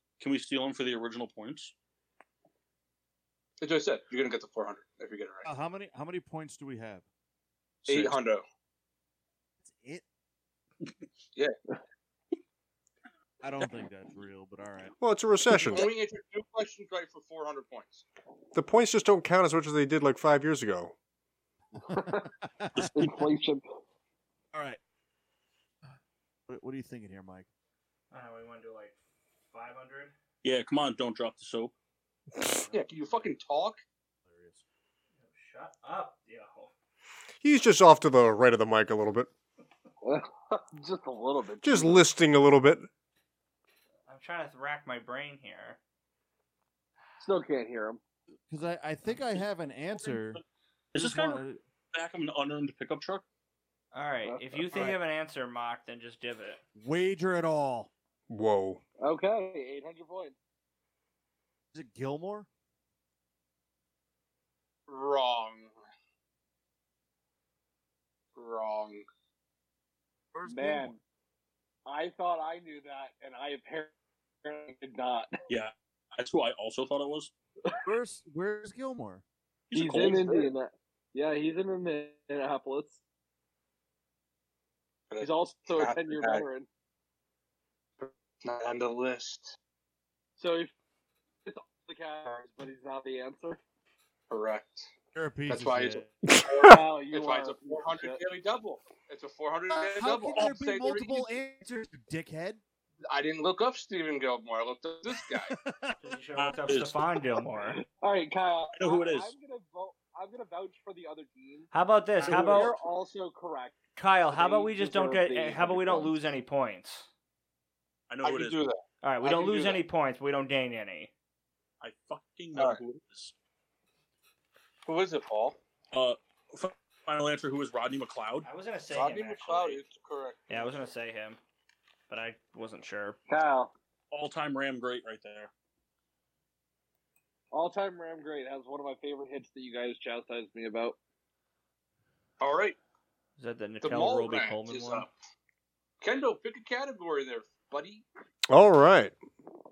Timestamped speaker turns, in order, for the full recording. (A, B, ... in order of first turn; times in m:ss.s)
0:00.2-0:01.7 A
0:03.6-0:05.5 B
0:05.4-0:07.0 C
0:07.8-0:08.4 B
0:07.9-0:08.1 C
0:09.6-0:10.0 C
0:13.4-0:14.9 C
0:15.0-0:15.9 D
0:15.7-0:18.0 B
0:18.5-0:20.9 D
0:21.7-0:22.9 C
0:21.9-0:22.3 E
0:22.7-0:23.2 A
0:22.9-0:23.6 E
0:24.5-0:24.8 C
0:26.5-0:27.5 C
0:28.1-0:30.1 F
0:30.4-0:31.7 A
0:32.7-0:33.8 B
0:34.2-0:34.6 C
0:35.2-0:36.7 F
0:37.4-0:39.3 D
0:40.0-0:42.1 E
0:41.6-0:42.9 D
0:44.1-0:45.8 F
0:47.2-0:48.0 E
0:48.5-0:50.4 C
0:50.0-0:50.4 A
0:50.9-0:53.2 A
0:50.9-0:51.6 C
0:53.9-0:56.6 F
0:54.2-0:54.9 E
0:56.8-0:57.9 C
0:58.3-0:58.8 D
0:59.0-1:00.4 E
1:01.7-1:02.5 C
1:04.9-1:05.7 B
1:08.4-1:09.0 B
1:10.3-1:11.0 C
1:10.4-1:11.0 E
1:11.8-1:15.4 E
1:15.5-1:17.3 A
1:17.8-1:19.2 C
1:19.7-1:20.3 A
1:19.7-1:23.0 E
1:20.0-1:20.5 B
1:25.1-1:26.4 B
1:25.2-1:26.7 E
1:28.0-1:29.5 B
1:30.4-1:30.7 E
1:31.4-1:33.6 E
1:34.3-1:34.9 B
1:35.1-1:36.2 C
1:35.5-1:41.4 B
1:36.3-1:36.8 D
1:36.6-1:38.2 E
1:39.7-1:42.6 C
1:43.1-1:45.5 B
1:45.2-1:46.0 C
1:46.0-1:47.8 F
1:46.4-1:47.0 A
1:47.8-1:56.3 E
1:48.7-1:49.3 A
1:51.7-1:52.7 F
1:52.3-1:52.7 A
1:54.0-1:57.1 F
1:58.1-1:58.7 A
1:58.2-1:59.8 B
1:59.0-2:01.1 F
2:01.8-2:03.3 A
2:02.5-2:02.8 B
2:04.8-2:05.6 B
2:05.9-2:08.5 A
2:08.4-2:09.8 F
2:08.9-2:10.8 B
2:10.5-2:11.4 F
2:12.1-2:13.2 F
2:13.3-2:13.7 E
2:14.1-2:15.5 A
2:17.5-2:21.0 E
2:22.4-2:22.8 B
2:23.4-2:25.1 F
2:23.8-2:25.1 B
2:26.0-2:28.0 B
2:28.5-2:29.2 D